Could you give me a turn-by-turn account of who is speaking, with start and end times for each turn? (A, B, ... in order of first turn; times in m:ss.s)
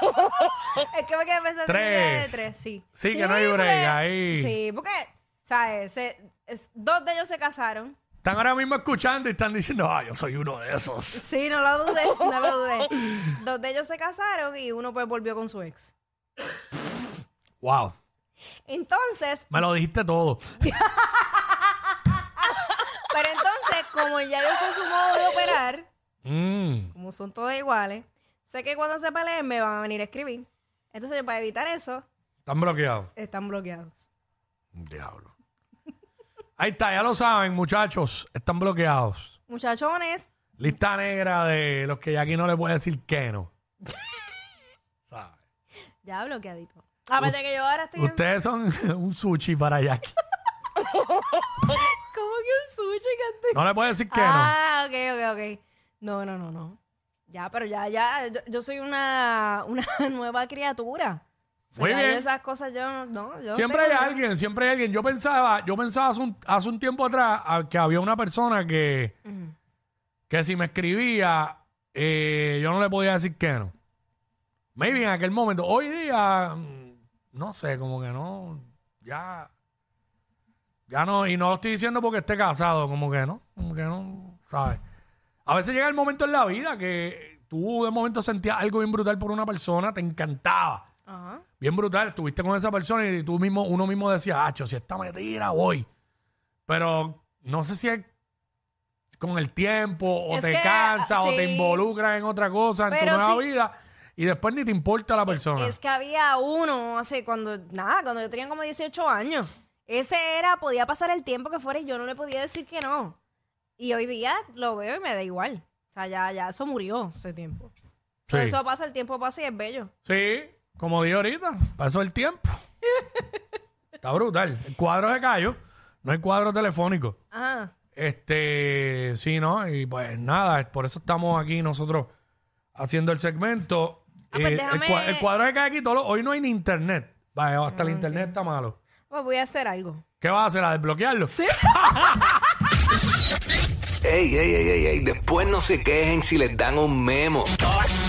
0:00.7-0:08.0 A
0:01.6-0:04.6 B
0:08.2-0:11.2 B
0:11.1-0:15.9 A
0:17.6-0:17.9 B
0:18.6-0:19.5 A
0:19.5-0:20.5 B
0:20.6-0:21.4 A
0:22.6-0:25.9 A
0:26.2-0:26.9 B
0:26.9-0:32.0 A
0:32.4-0:33.1 B
0:33.2-0:34.0 A
0:34.7-0:35.3 B
0:36.6-0:39.4 B
0:39.5-0:40.3 A
0:40.6-0:43.5 B
0:45.1-0:45.4 B
0:46.0-0:48.2 A
0:48.0-0:50.2 B
0:51.6-1:04.2 A
0:53.5-0:54.5 B
1:01.8-1:02.3 B
1:03.5-1:09.1 B
1:09.2-1:09.5 A
1:10.3-1:13.7 B
1:14.8-1:19.5 B
1:20.9-1:24.8 B
1:25.4-1:30.8 B
1:31.0-1:31.4 A
1:31.6-1:35.8 B
1:36.7-1:38.1 B
1:39.2-1:45.8 B
1:40.3-1:41.8 A
1:42.9-1:43.4 A
1:45.4-1:53.2 A
1:53.8-1:57.7 A
1:58.3-1:59.9 A
1:58.3-1:58.6 B
2:00.0-2:02.6 B
2:04.0-2:07.2 B
2:07.3-2:07.7 A
2:07.9-2:12.1 B
2:12.7-2:18.8 B
2:14.3-2:15.3 A
2:17.7-2:18.3 A
2:19.1-2:20.0 A
2:20.2-2:22.4 B
2:21.3-2:22.3 A
2:24.0-2:27.6 C